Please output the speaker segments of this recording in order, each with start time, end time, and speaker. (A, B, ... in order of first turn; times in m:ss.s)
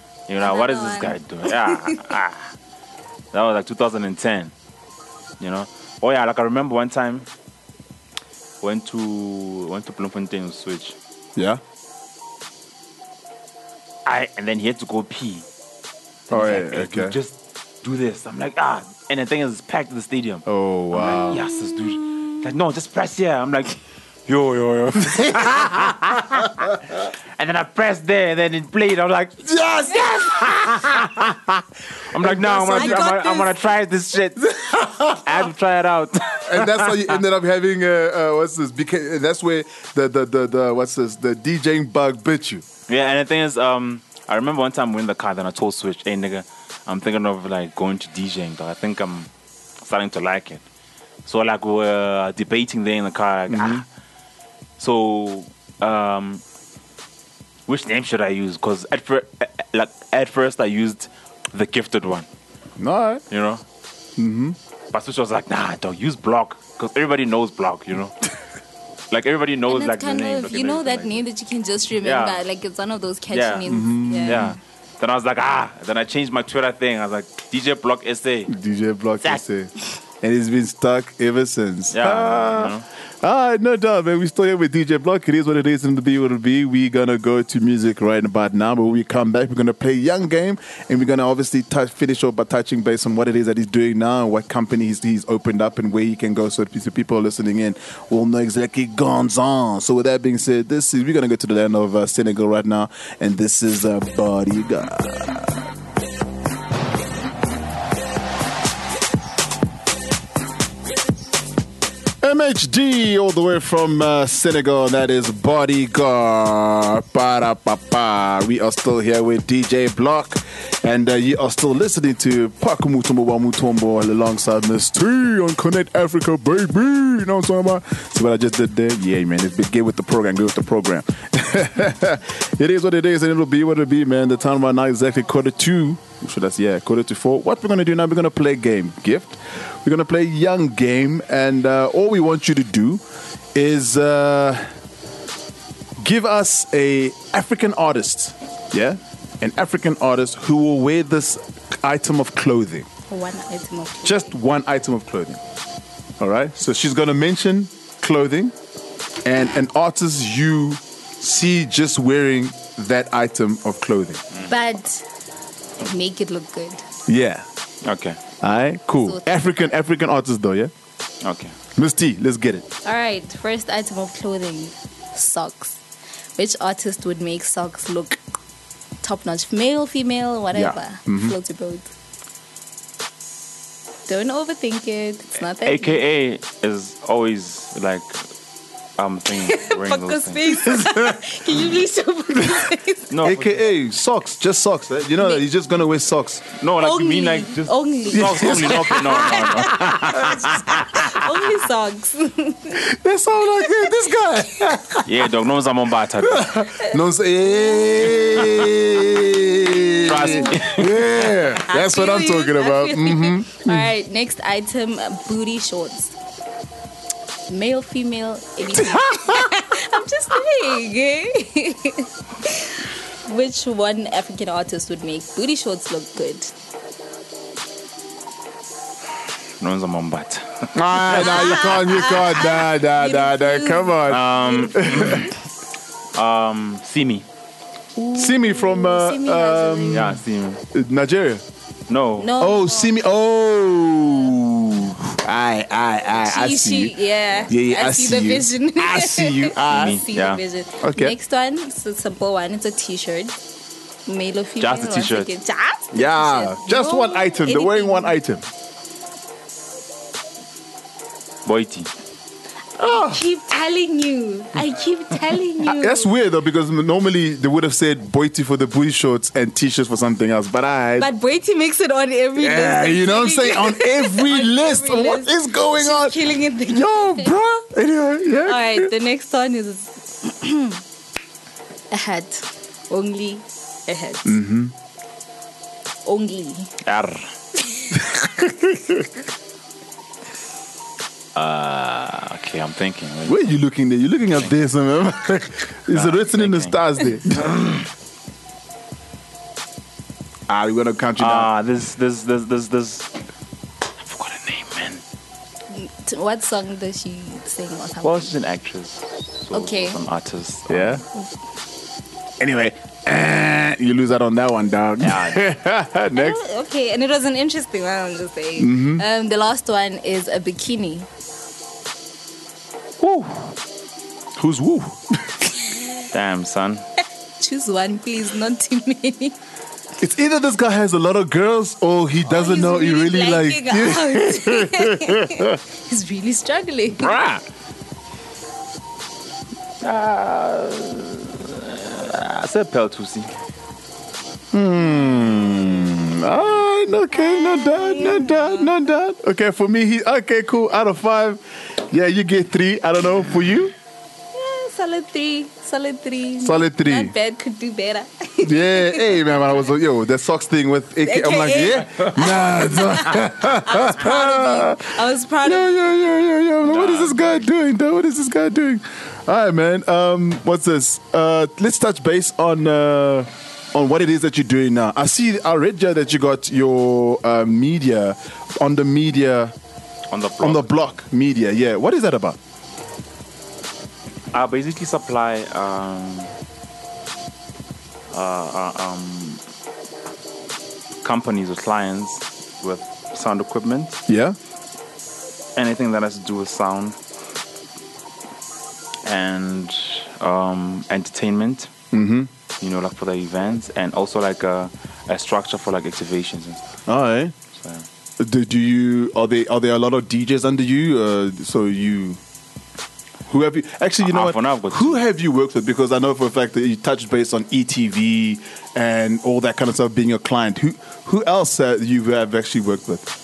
0:00.3-0:02.5 A
0:00.4-0:02.1 B
0:03.3-0:04.5 A
0:05.4-0:07.3 A
0:08.6-0:11.0 A
0:11.4-0:11.6 C
0:14.1-0:15.5 A
0:16.3-0:31.2 A
0:16.3-0:17.2 C
0:20.5-0:21.4 C
0:25.2-0:25.9 C
0:29.4-0:31.6 C
0:32.1-0:37.2 A
0:32.2-0:33.1 C
0:32.7-0:33.5 B
0:34.4-0:35.2 C
0:36.4-0:42.6 C
0:42.9-0:49.3 A
0:49.8-0:50.6 A
0:51.3-0:53.9 A
0:53.5-0:53.8 C
0:54.8-0:56.4 A
0:57.7-1:02.3 A
1:02.8-1:03.2 C
1:03.3-1:03.6 A
1:04.2-1:04.6 C
1:04.9-1:08.2 A
1:09.1-1:11.3 A
1:09.7-1:14.6 B
1:12.0-1:12.4 A
1:13.3-1:13.7 A
1:13.7-1:14.6 C
1:14.2-1:18.5 A
1:18.5-1:45.6 C
1:21.9-1:22.8 A
1:52.2-2:23.0 C
2:23.6-2:24.6 C
2:26.0-2:32.9 C
2:33.1-2:34.3 B
2:34.0-2:35.4 C
2:36.2-2:38.6 C
2:39.2-2:44.2 C
2:44.5-2:45.0 B
2:45.8-2:46.8 B
2:47.1-2:47.5 C
2:47.8-2:48.2 A
2:48.4-2:50.7 C
2:49.0-2:49.4 B
2:51.2-2:51.6 A
2:51.8-2:52.6 C
2:52.8-2:55.8 B
2:56.4-2:58.2 B
2:59.0-3:01.9 B
3:00.5-3:01.4 C
3:04.1-3:06.0 B
3:05.6-3:08.2 A
3:09.0-3:10.4 A
3:09.4-3:13.1 B
3:10.5-3:11.2 C
3:12.4-3:12.7 C
3:13.1-3:13.6 A
3:13.2-3:16.4 C
3:15.2-3:15.4 B
3:16.6-3:20.3 A
3:16.8-3:22.8 B
3:18.1-3:21.3 C
3:22.7-3:25.1 C
3:23.6-3:24.0 B
3:25.0-3:26.5 A
3:26.2-3:33.9 C
3:27.6-3:28.3 B
3:29.9-3:30.6 B
3:30.0-3:31.0 A
3:31.7-3:36.2 B
3:37.5-3:46.5 B
3:38.7-3:39.5 C
3:49.6-3:51.7 A
3:50.8-3:55.3 C
3:51.1-3:55.3 B
3:54.1-3:55.3 A
3:56.2-3:57.3 A
3:58.0-4:00.2 B
3:58.1-4:00.2 C
3:59.9-4:00.6 A
4:00.7-4:01.4 C
4:01.9-4:02.3 A
4:02.2-4:03.0 B
4:02.4-4:07.0 C
4:06.2-4:13.4 B
4:07.5-4:10.0 C
4:09.7-4:10.4 A
4:10.8-4:11.2 C
4:14.1-4:18.2 B
4:14.6-4:15.3 A
4:15.9-4:18.4 C
4:21.5-4:21.9 A
4:22.8-4:23.2 C
4:22.8-4:26.1 B
4:25.6-4:31.1 C
4:31.0-4:37.3 B
4:32.4-4:38.9 C
4:38.4-4:40.8 B
4:41.9-4:44.4 B
4:44.2-4:44.7 C
4:46.0-4:46.7 B
4:46.8-4:47.3 A
4:48.2-4:49.0 C
4:51.4-4:53.5 A
4:53.3-4:57.6 C
4:55.9-4:56.8 A
4:57.4-4:57.8 A
5:00.5-5:01.5 C
5:01.2-5:03.1 A
5:04.0-5:05.0 A
5:05.7-5:08.3 B
5:08.0-5:11.0 A
5:09.5-5:10.0 B
5:10.7-5:11.0 C
5:12.4-5:16.4 C
5:15.0-5:15.4 A
5:16.1-5:21.1 B
5:18.6-5:19.0 C
5:23.0-5:23.5 A
5:24.4-5:25.6 C
5:26.1-5:26.8 A
5:27.4-5:29.4 B
5:30.0-5:35.6 C
5:32.3-5:37.2 B
5:36.9-5:37.4 C
5:39.8-5:43.3 A
5:44.5-5:53.7 C
5:45.1-5:45.7 B
5:47.1-5:48.7 B
5:54.3-5:59.5 B
5:56.4-5:57.1 C
5:58.4-6:19.5 C
6:01.0-6:06.0 B
6:06.6-6:07.5 A
6:20.1-6:21.0 A
6:20.4-6:22.4 C
6:24.3-6:26.3 A
6:28.1-6:29.4 A
6:31.0-6:34.0 A
6:34.1-6:34.4 C
6:35.6-6:37.0 A
6:39.0-6:41.7 A
6:41.9-6:42.3 C
6:42.6-6:46.6 A
6:46.9-6:47.3 C
6:47.5-6:47.9 A
6:48.2-6:52.2 C
6:53.3-7:03.1 C
6:54.0-6:55.0 A